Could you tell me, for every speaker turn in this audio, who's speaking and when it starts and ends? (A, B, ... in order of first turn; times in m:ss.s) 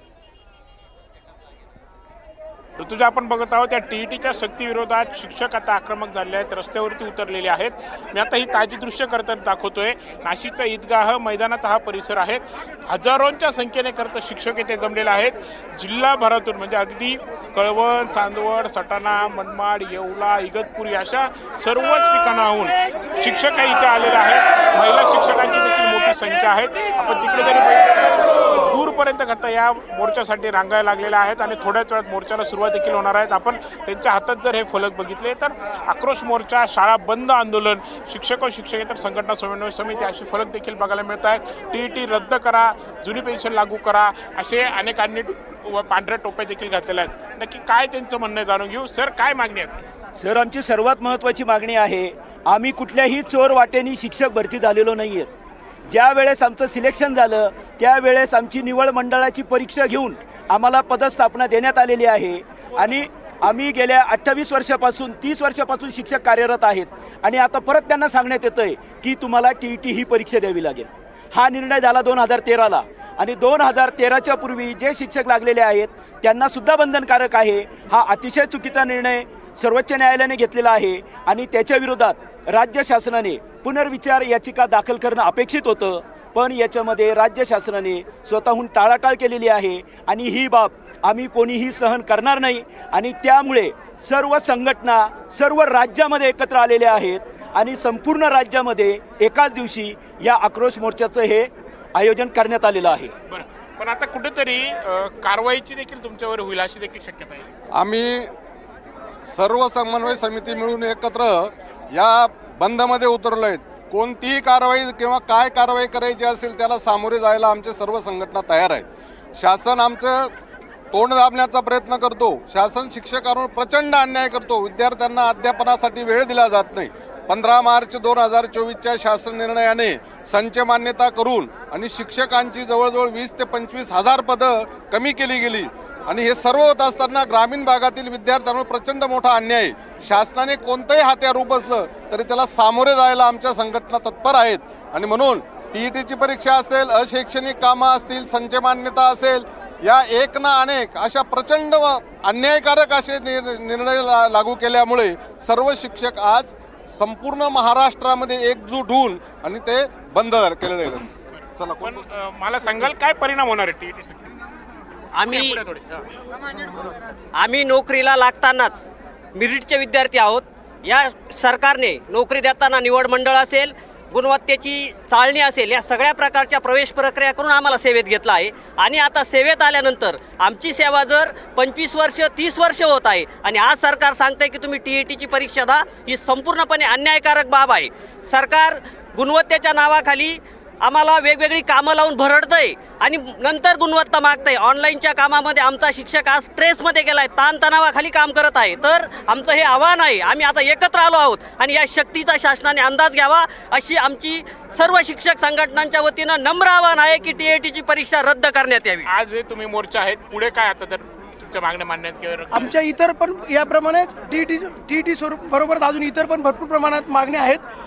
0:02.8-0:49.8 A
0:50.2-0:55.3 B
0:55.9-1:43.1 B
1:43.3-1:47.5 A
1:47.7-1:48.3 C
1:49.3-2:00.3 C
2:00.9-2:42.0 C
2:41.8-2:44.3 A
2:45.2-2:45.6 D
2:45.2-2:46.0 A
2:47.4-3:29.0 D
3:29.0-3:32.7 A
3:32.5-3:37.6 E